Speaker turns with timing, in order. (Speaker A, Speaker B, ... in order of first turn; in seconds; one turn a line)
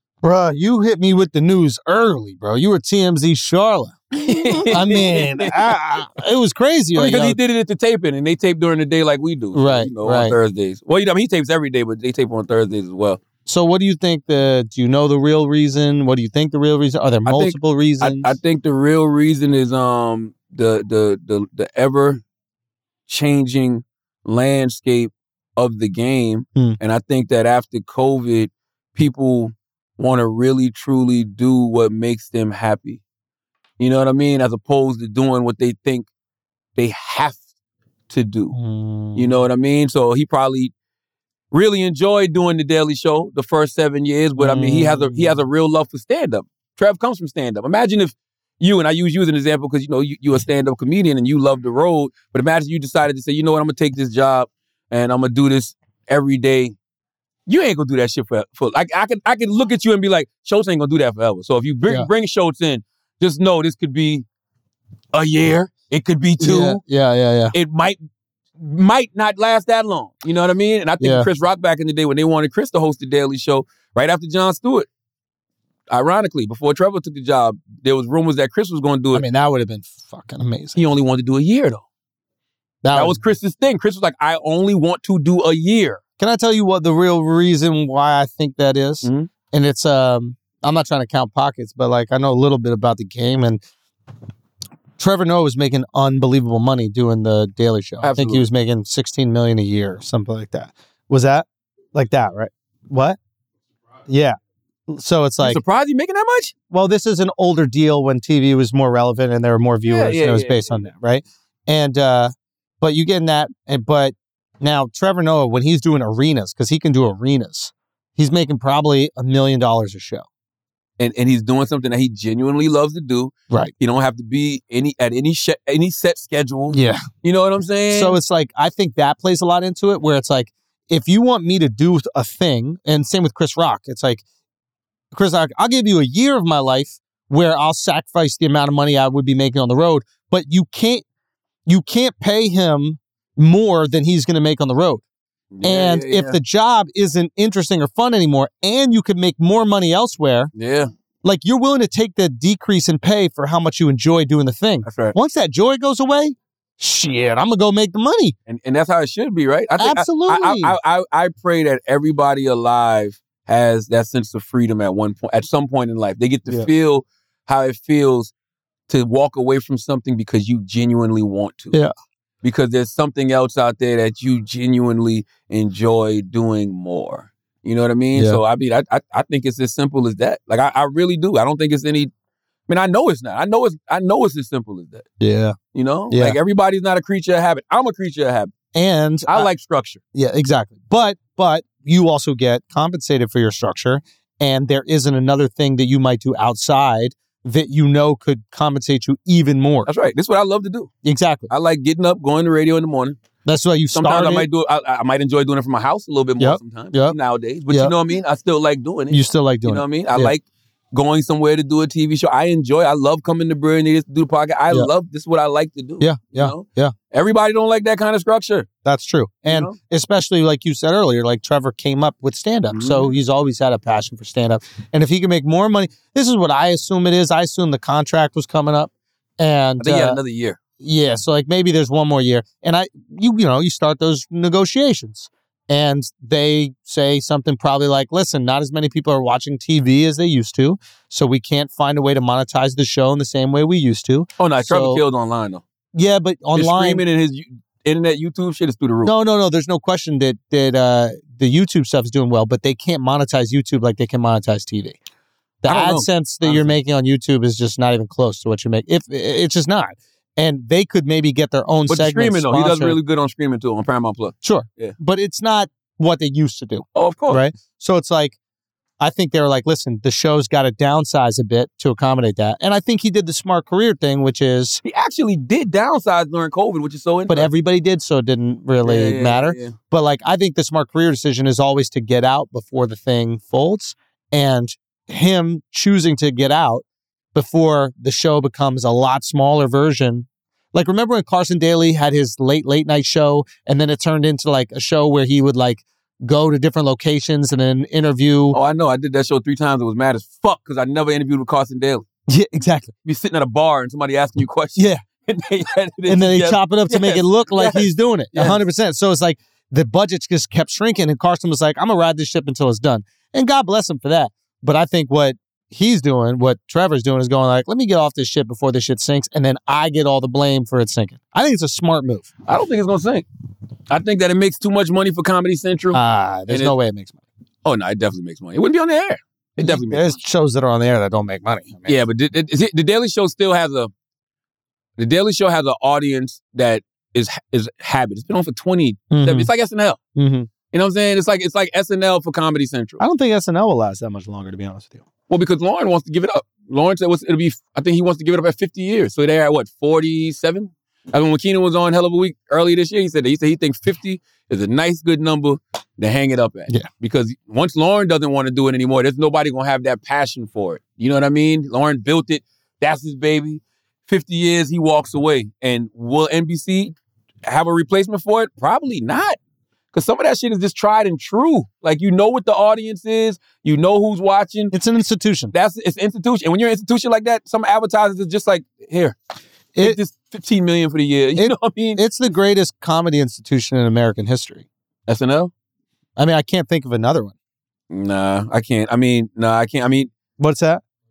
Speaker A: 0.2-4.0
Speaker B: 4.1-5.7
Speaker A: 4.7-7.4
Speaker B: 6.9-13.2
Speaker A: 9.5-10.3
Speaker A: 13.4-18.4
Speaker B: 17.2-22.2
Speaker B: 23.1-33.0
Speaker B: 33.8-36.1
Speaker B: 36.8-37.4
Speaker B: 38.1-38.5
Speaker A: 38.5-39.3
Speaker B: 39.1-40.7
Speaker B: 41.5-56.8
Speaker A: 44.4-45.4
Speaker B: 57.5-64.2
Speaker B: 65.1-66.8
Speaker A: 66.4-67.5
Speaker B: 67.5-68.0
Speaker B: 68.6-74.9
Speaker A: 71.0-71.3
Speaker B: 75.9-79.2
Speaker A: 79.1-80.8
Speaker B: 80.8-81.8
Speaker A: 82.8-83.2
Speaker B: 82.9-86.0
Speaker A: 86.2-93.6
Speaker B: 89.0-89.3
Speaker A: 95.0-103.2
Speaker B: 98.0-98.5
Speaker A: 104.1-104.4
Speaker A: 104.9-105.6
Speaker B: 105.4-106.5
Speaker A: 106.7-120.3
Speaker B: 109.8-110.8
Speaker B: 121.0-128.2
Speaker A: 126.7-127.0
Speaker A: 127.9-134.2
Speaker A: 135.1-141.0
Speaker A: 141.7-145.0
Speaker B: 145.5-146.4
Speaker A: 145.6-150.5
Speaker B: 150.5-150.9
Speaker A: 151.2-158.3
Speaker B: 154.8-155.1
Speaker B: 158.5-168.3
Speaker A: 159.8-160.8
Speaker B: 168.9-171.8
Speaker B: 172.4-182.1
Speaker A: 178.1-178.4
Speaker B: 182.7-185.1
Speaker A: 185.2-185.6
Speaker B: 185.7-188.5
Speaker A: 186.1-186.4
Speaker A: 188.7-189.5
Speaker B: 189.3-190.0
Speaker A: 190.1-199.9
Speaker B: 199.8-200.9
Speaker A: 201.0-201.5
Speaker B: 201.5-203.2
Speaker A: 203.4-204.5
Speaker B: 203.9-218.7
Speaker A: 206.4-207.2
Speaker A: 207.7-207.9
Speaker A: 209.1-210.3
Speaker A: 216.0-216.9
Speaker A: 218.8-230.2
Speaker B: 219.4-219.8
Speaker B: 222.7-223.1
Speaker B: 229.8-230.6
Speaker A: 230.8-245.0
Speaker B: 244.4-245.6
Speaker A: 245.9-247.0
Speaker B: 246.5-249.1
Speaker A: 249.0-255.0
Speaker A: 255.6-263.0
Speaker B: 255.7-256.8
Speaker B: 261.9-264.9
Speaker A: 264.4-268.4
Speaker B: 266.9-267.4
Speaker A: 269.0-274.8
Speaker B: 274.8-277.5
Speaker A: 277.3-286.8
Speaker B: 278.8-279.7
Speaker A: 287.3-298.6
Speaker B: 298.5-302.0
Speaker A: 302.3-302.9
Speaker B: 303.0-308.6
Speaker A: 304.8-305.0
Speaker A: 306.1-322.3
Speaker B: 322.5-323.2
Speaker B: 323.9-326.7
Speaker A: 325.9-327.2
Speaker B: 327.6-330.1
Speaker A: 329.6-332.0
Speaker B: 331.9-333.9
Speaker B: 335.0-340.0
Speaker A: 339.1-339.5
Speaker A: 340.1-340.5
Speaker B: 340.7-343.0
Speaker A: 343.0-345.0
Speaker B: 345.3-366.9
Speaker B: 367.4-369.4
Speaker B: 369.9-374.7
Speaker A: 374.7-375.5
Speaker B: 375.5-379.1
Speaker B: 379.8-382.0
Speaker A: 381.4-384.6
Speaker B: 385.1-385.5
Speaker A: 386.2-387.3
Speaker B: 387.9-390.1
Speaker A: 390.4-390.8